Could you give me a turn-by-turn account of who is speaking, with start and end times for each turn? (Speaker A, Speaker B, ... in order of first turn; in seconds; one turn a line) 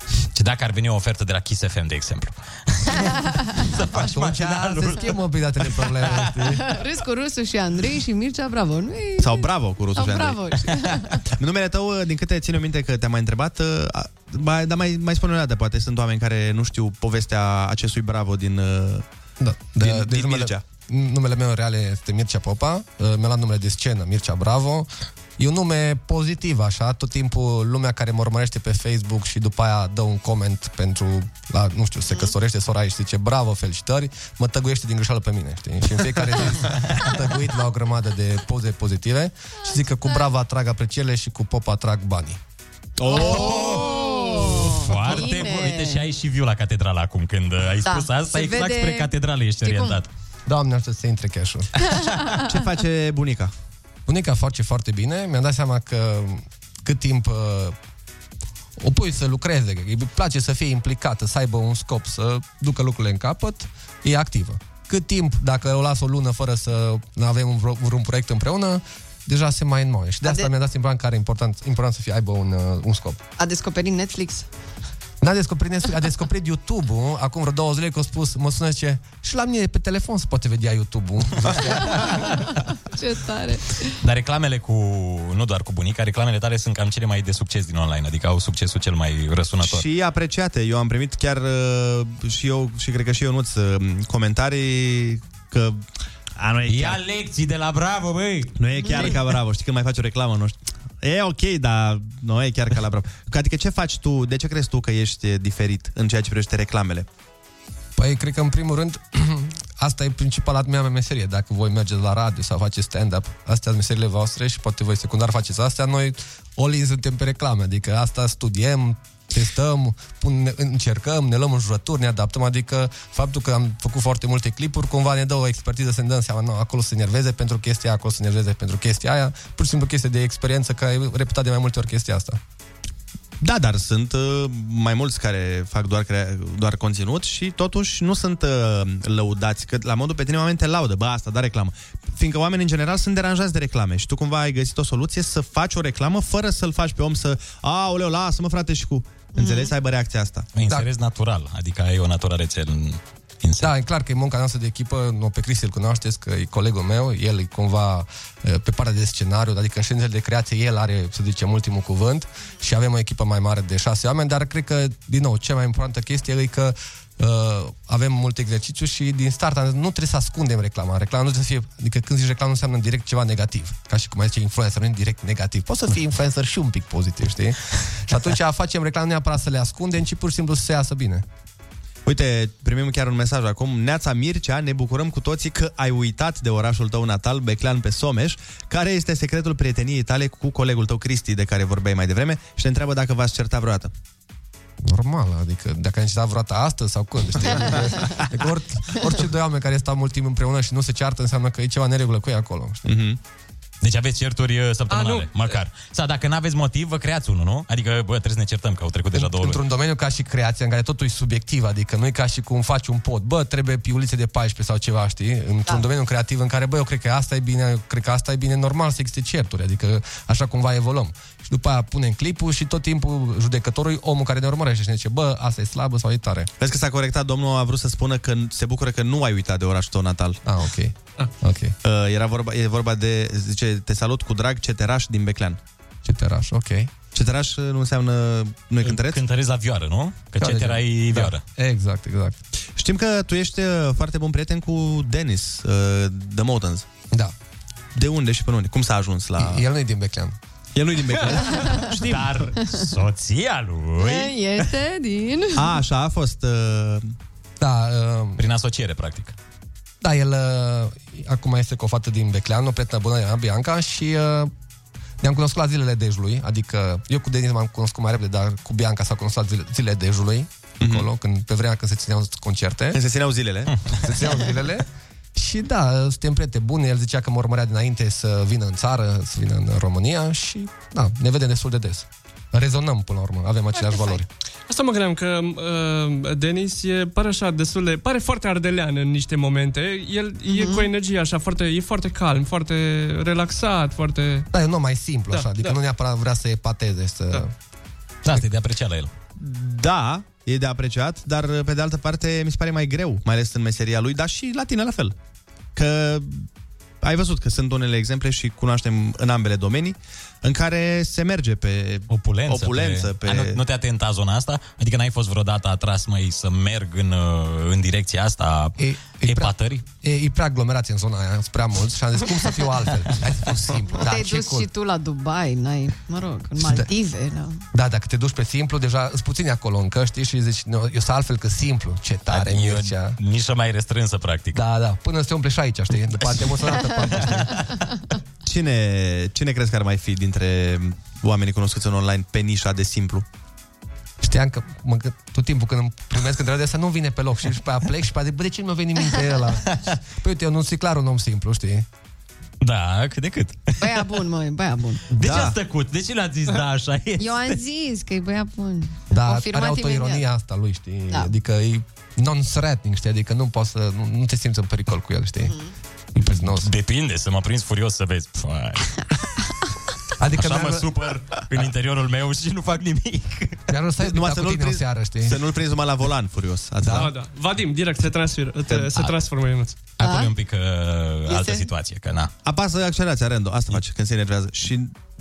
Speaker A: 0.3-5.2
Speaker B: 3.1-3.4
Speaker C: 3.9-6.7
Speaker A: 5.7-6.1
Speaker B: 6.5-11.2
Speaker D: 9.2-10.4
Speaker D: 11.3-19.1
Speaker C: 19.4-42.4
Speaker D: 19.8-20.6
Speaker D: 43.0-43.9
Speaker A: 43.0-50.1
Speaker B: 43.1-46.0
Speaker B: 47.8-49.1
Speaker B: 49.6-50.0
Speaker C: 50.5-51.7
Speaker B: 51.8-52.4
Speaker D: 52.4-53.5
Speaker C: 54.1-57.7
Speaker C: 58.8-73.2
Speaker B: 70.2-70.5
Speaker B: 73.4-74.5
Speaker C: 75.2-82.0
Speaker B: 81.6-83.9
Speaker A: 84.0-89.9
Speaker D: 89.6-95.8
Speaker D: 96.4-97.0
Speaker A: 96.7-99.2
Speaker D: 98.6-107.1
Speaker C: 108.0-132.4
Speaker D: 133.4-150.5
Speaker B: 149.3-149.7
Speaker A: 150.6-153.7
Speaker C: 153.6-181.2
Speaker D: 182.1-193.9
Speaker C: 194.8-202.8
Speaker D: 202.8-203.2
Speaker A: 203.8-209.6
Speaker E: 204.9-205.6
Speaker C: 209.1-226.5
Speaker D: 226.6-230.4
Speaker C: 230.4-231.8
Speaker D: 231.8-235.6
Speaker C: 236.1-236.9
Speaker D: 237.1-239.2
Speaker A: 238.8-241.4
Speaker C: 240.4-242.4
Speaker D: 242.8-246.9
Speaker D: 247.9-249.6
Speaker C: 249.4-250.4
Speaker D: 250.7-252.4
Speaker A: 251.8-254.3
Speaker B: 254.0-255.7
Speaker D: 255.6-257.1
Speaker C: 257.6-258.4
Speaker A: 258.4-259.4
Speaker C: 260.0-264.5
Speaker C: 265.2-273.0
Speaker D: 270.8-271.1
Speaker D: 272.9-273.7
Speaker C: 274.0-284.3
Speaker E: 284.7-294.5
Speaker B: 290.5-290.9
Speaker C: 294.5-297.5
Speaker E: 295.3-295.8
Speaker A: 298.2-299.1
Speaker D: 299.4-305.1
Speaker D: 305.7-306.5
Speaker D: 307.0-313.6
Speaker A: 312.1-319.9
Speaker C: 318.8-324.7
Speaker B: 323.9-327.6
Speaker C: 326.6-326.9
Speaker C: 327.7-333.2
Speaker A: 332.3-334.6
Speaker C: 334.5-337.6
Speaker A: 336.4-337.7
Speaker D: 338.4-343.3
Speaker C: 344.2-351.9
Speaker A: 352.6-353.8
Speaker B: 353.8-355.0
Speaker A: 355.1-357.6
Speaker D: 355.2-355.6
Speaker B: 357.2-360.2
Speaker C: 359.1-365.5
Speaker B: 365.4-365.7
Speaker C: 366.1-366.7
Speaker A: 366.2-369.0
Speaker C: 370.2-370.9
Speaker A: 370.3-373.6
Speaker C: 373.7-375.4
Speaker D: 374.0-377.1
Speaker C: 376.8-377.1
Speaker E: 376.9-379.8
Speaker A: 380.0-382.3
Speaker B: 380.0-380.3
Speaker B: 381.3-381.6
Speaker D: 382.4-384.9